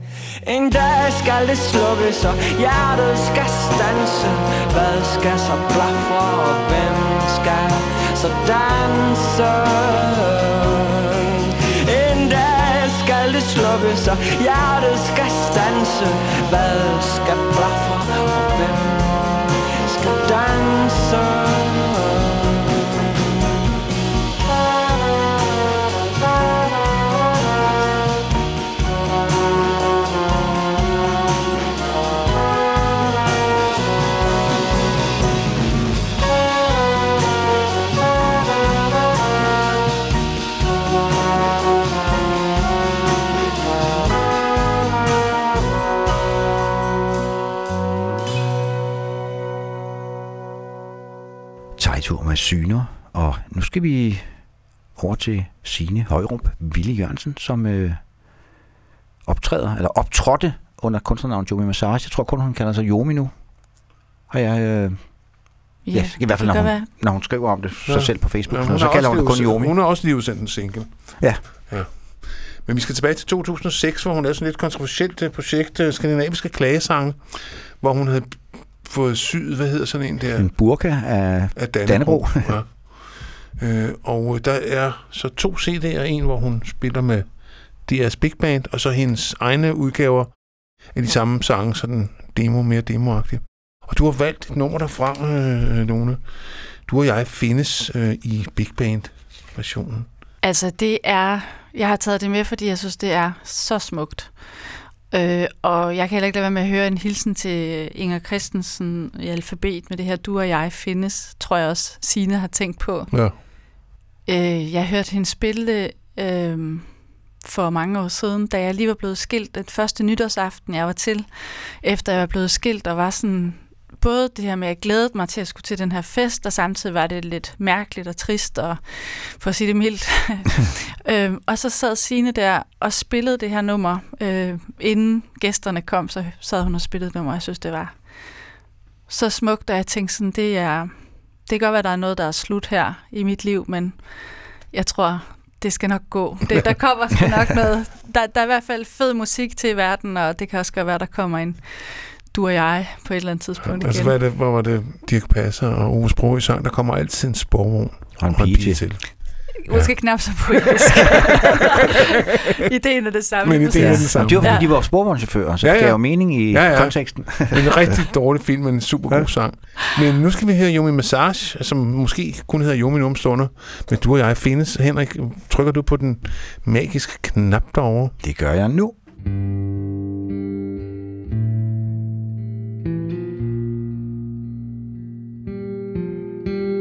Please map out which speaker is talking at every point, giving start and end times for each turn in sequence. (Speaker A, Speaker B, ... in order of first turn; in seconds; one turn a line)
Speaker A: 0.4-22.6
Speaker B: 51.8-54.3
Speaker B: 54.9-58.0
Speaker B: 59.3-63.3
Speaker B: 64.3-65.3
Speaker C: 65.8-66.9
Speaker B: 65.9-69.7
Speaker D: 67.8-80.6
Speaker B: 80.3-82.6
Speaker D: 81.5-100.1
Speaker C: 100.4-113.3
Speaker D: 113.1-113.3
Speaker C: 114.3-138.2
Speaker C: 139.1-144.2
Speaker C: 144.7-154.2
Speaker D: 153.6-160.4
Speaker B: 158.2-158.9
Speaker C: 159.6-164.7
Speaker D: 163.4-164.8
Speaker B: 163.8-167.9
Speaker D: 165.6-178.1
Speaker B: 178.2-178.9